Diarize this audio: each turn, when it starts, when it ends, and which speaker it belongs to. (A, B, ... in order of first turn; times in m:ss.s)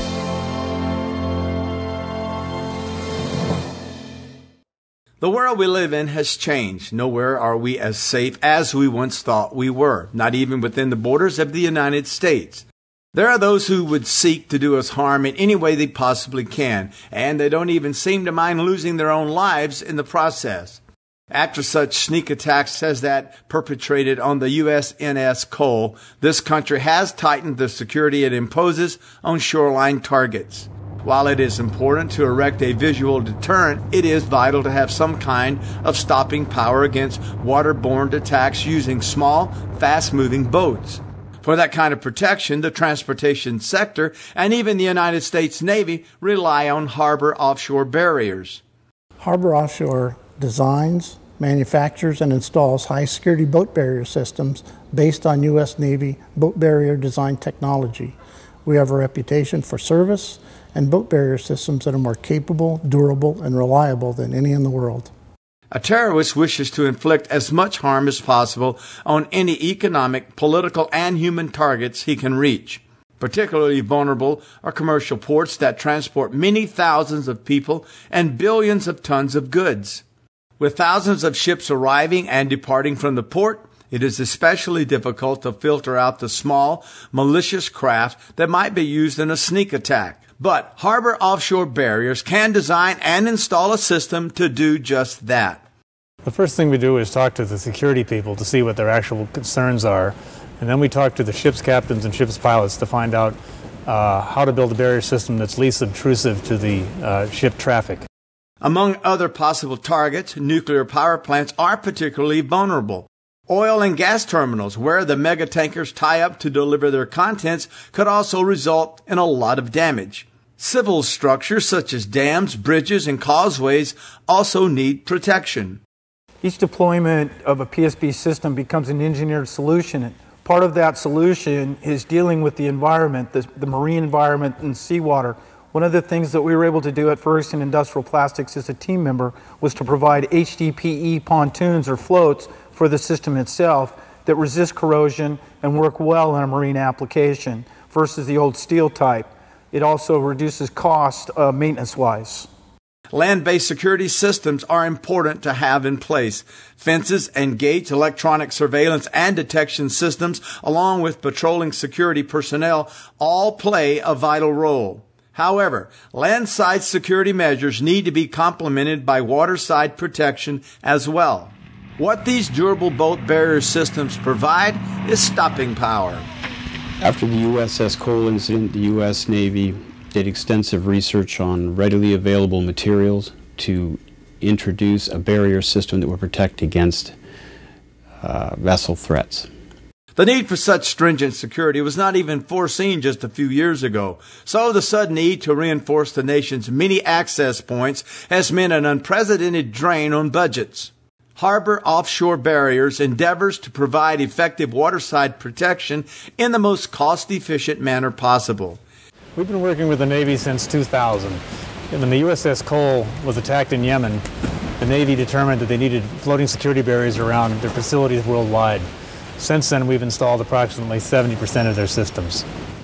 0:05.2-0:20.8 A
0:21.3-0:48.6 A
0:49.2-1:05.1 B
1:05.7-1:20.0 A
1:20.6-1:35.6 A
1:36.2-1:48.0 C
1:48.6-2:05.8 A
2:06.4-2:32.4 D
2:33.1-2:56.3 A
2:57.0-3:07.2 E
3:08.2-3:09.5 E
3:10.2-3:28.8 A
3:29.4-3:31.4 C
3:31.9-3:34.2 C
3:34.8-3:38.8 C
3:39.4-3:42.4 C